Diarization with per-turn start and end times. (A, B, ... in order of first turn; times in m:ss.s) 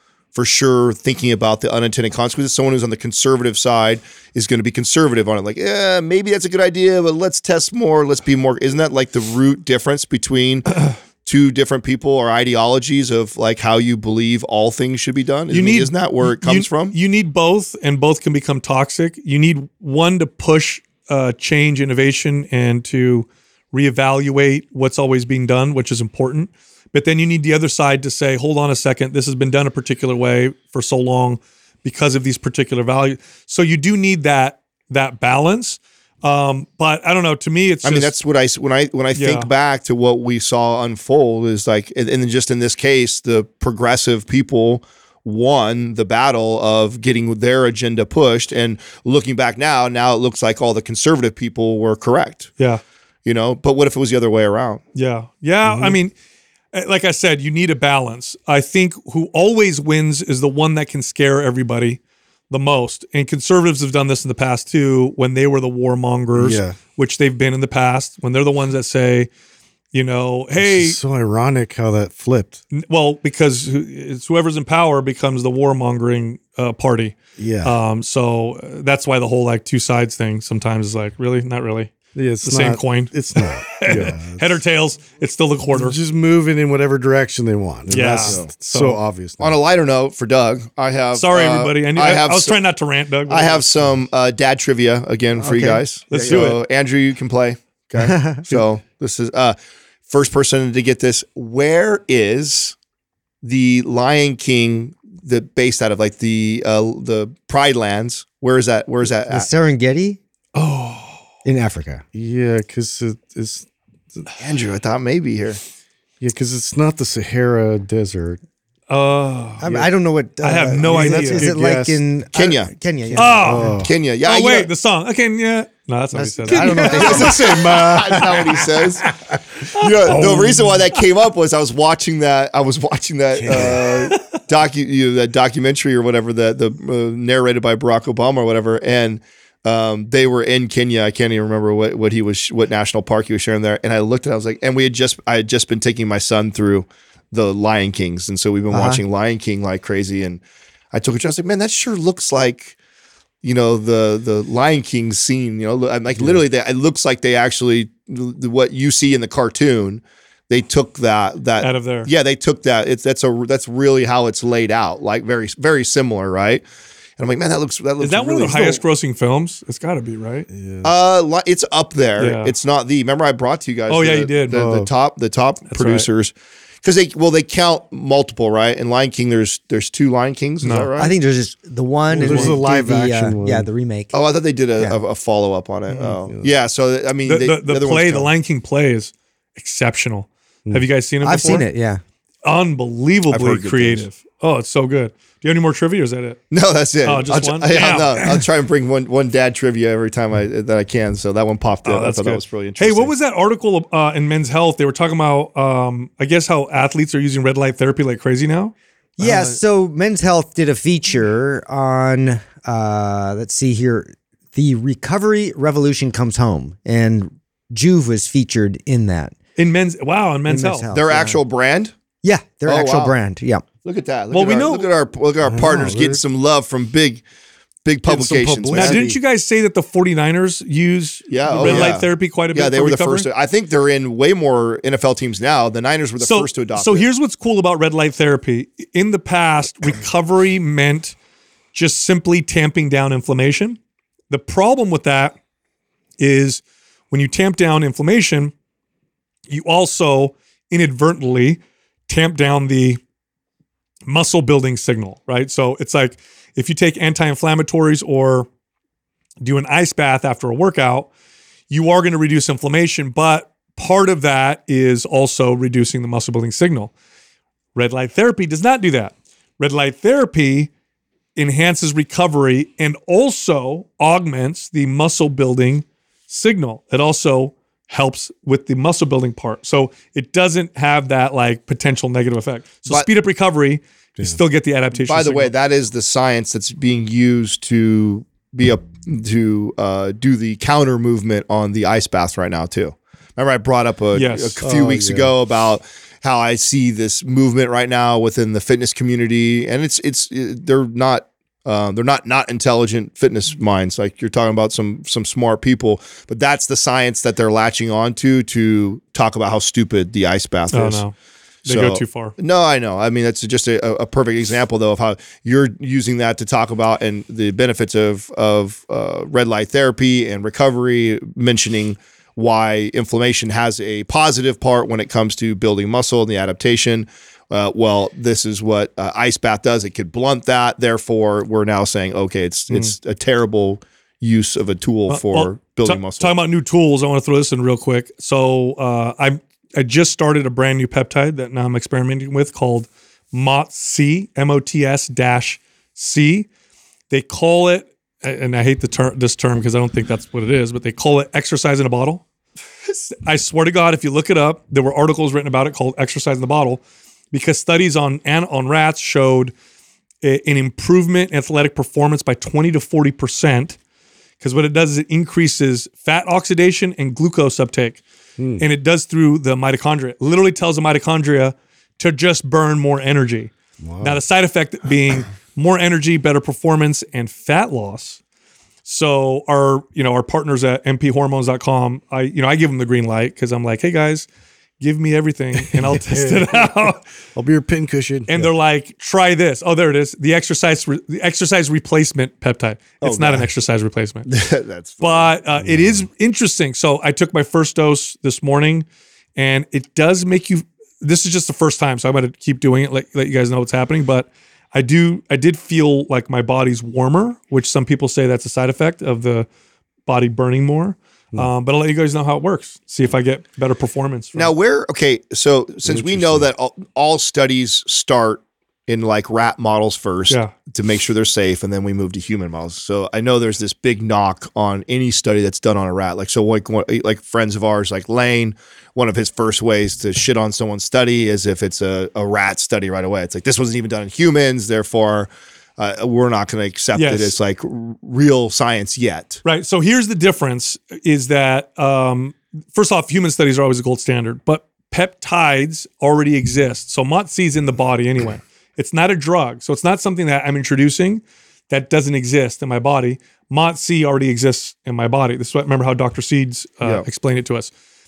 0:00.3-0:17.0 A
0:15.5-0:38.1 B
0:37.8-0:52.5 A
0:39.1-0:39.5 B
0:53.2-0:54.8 A
0:54.9-0:56.1 B
0:55.6-0:56.0 C
0:56.7-1:09.3 B
1:06.3-1:06.8 C
1:09.9-1:11.0 B
1:10.6-1:12.6 C
1:12.7-1:21.9 B
1:17.4-1:17.8 C
1:22.1-1:24.5 C
1:22.4-1:26.0 B
1:25.7-1:29.6 C
1:27.9-1:29.0 B
1:27.9-1:28.5 A
1:29.4-1:32.6 A
1:31.1-1:33.6 B
1:33.3-1:39.6 A
1:35.4-1:35.8 D
1:36.1-1:36.6 B
1:36.2-1:36.6 C
1:38.0-1:38.4 D
1:40.1-1:42.8 A
1:43.4-1:49.5 A
1:49.3-1:50.2 D
1:50.5-1:51.2 B
1:51.4-1:52.0 D
1:52.1-1:54.2 C
1:54.4-1:55.6 A
1:56.2-1:58.4 C
1:58.9-1:59.6 B
1:59.6-2:03.7 D
1:59.6-1:59.9 C
2:00.4-2:01.6 B
2:00.8-2:02.0 C
2:02.3-2:03.2 A
2:03.2-2:07.3 B
2:03.4-2:03.9 C
2:03.8-2:04.7 A
2:06.2-2:07.9 D
2:06.5-2:10.9 C
2:06.6-2:30.4 A
2:13.3-2:13.9 C
2:13.9-2:14.2 B
2:28.7-2:29.0 D
2:30.9-2:32.7 A
2:33.4-2:46.6 A
2:36.2-2:36.4 C
2:41.6-2:42.1 B
2:47.2-2:48.8 A
2:48.0-2:50.5 B
2:50.5-2:50.9 C
2:50.8-3:01.1 A
2:52.2-2:52.5 B
2:53.9-2:54.6 B
2:54.5-2:54.9 C
2:55.7-2:56.1 B
3:00.6-3:00.9 B
3:01.0-3:04.2 D
3:02.1-3:03.7 C
3:02.2-3:02.5 B
3:04.1-3:08.3 A
3:06.0-3:06.5 C
3:07.2-3:11.6 B
3:11.2-3:12.0 D
3:12.4-3:16.4 B
3:13.3-3:14.1 A
3:16.5-3:23.1 A
3:17.0-3:18.2 B
3:21.8-3:28.7 B
3:29.2-3:39.3 D
3:29.2-3:29.5 A
3:39.6-3:40.8 B
3:40.4-3:41.4 D
3:40.9-3:41.9 A
3:42.2-3:43.6 D
3:42.6-3:43.1 A
3:43.8-3:47.2 A
3:44.3-3:44.8 B
3:45.4-3:46.2 C
3:47.8-3:49.0 A
3:48.0-3:49.2 C
3:48.7-3:53.3 B
3:51.3-3:57.1 A
3:51.5-3:52.0 C
3:56.2-4:01.1 B
4:01.7-4:03.8 B
4:04.3-4:05.4 B
4:06.2-4:08.5 B
4:09.5-4:13.0 B
4:14.1-4:18.5 B
4:19.4-4:21.1 B
4:21.7-4:26.9 B
4:27.7-4:30.7 B
4:31.4-4:45.5 B
4:45.0-5:11.0 A
4:54.1-4:54.6 B
4:54.6-4:55.3 C
5:10.7-5:11.1 B
5:11.6-5:36.3 A
5:11.6-5:12.3 B
5:35.1-5:46.5 B
5:47.1-5:52.2 B
5:52.9-5:59.5 B
6:00.2-6:03.8 B
6:04.4-6:08.0 B
6:08.4-6:08.6 C
6:08.6-6:18.2 B
6:13.8-6:14.2 C
6:18.8-6:24.3 B
6:24.8-6:27.0 B
6:25.6-6:28.5 C
6:28.3-6:34.3 B
6:33.0-6:33.5 A
6:34.3-6:35.3 A
6:35.0-6:38.8 B
6:35.6-6:36.1 C
6:39.4-6:49.5 B
6:50.0-6:54.5 B
6:54.3-7:19.4 A
6:55.8-6:56.5 C
7:16.9-7:17.3 B
7:19.4-7:37.7 B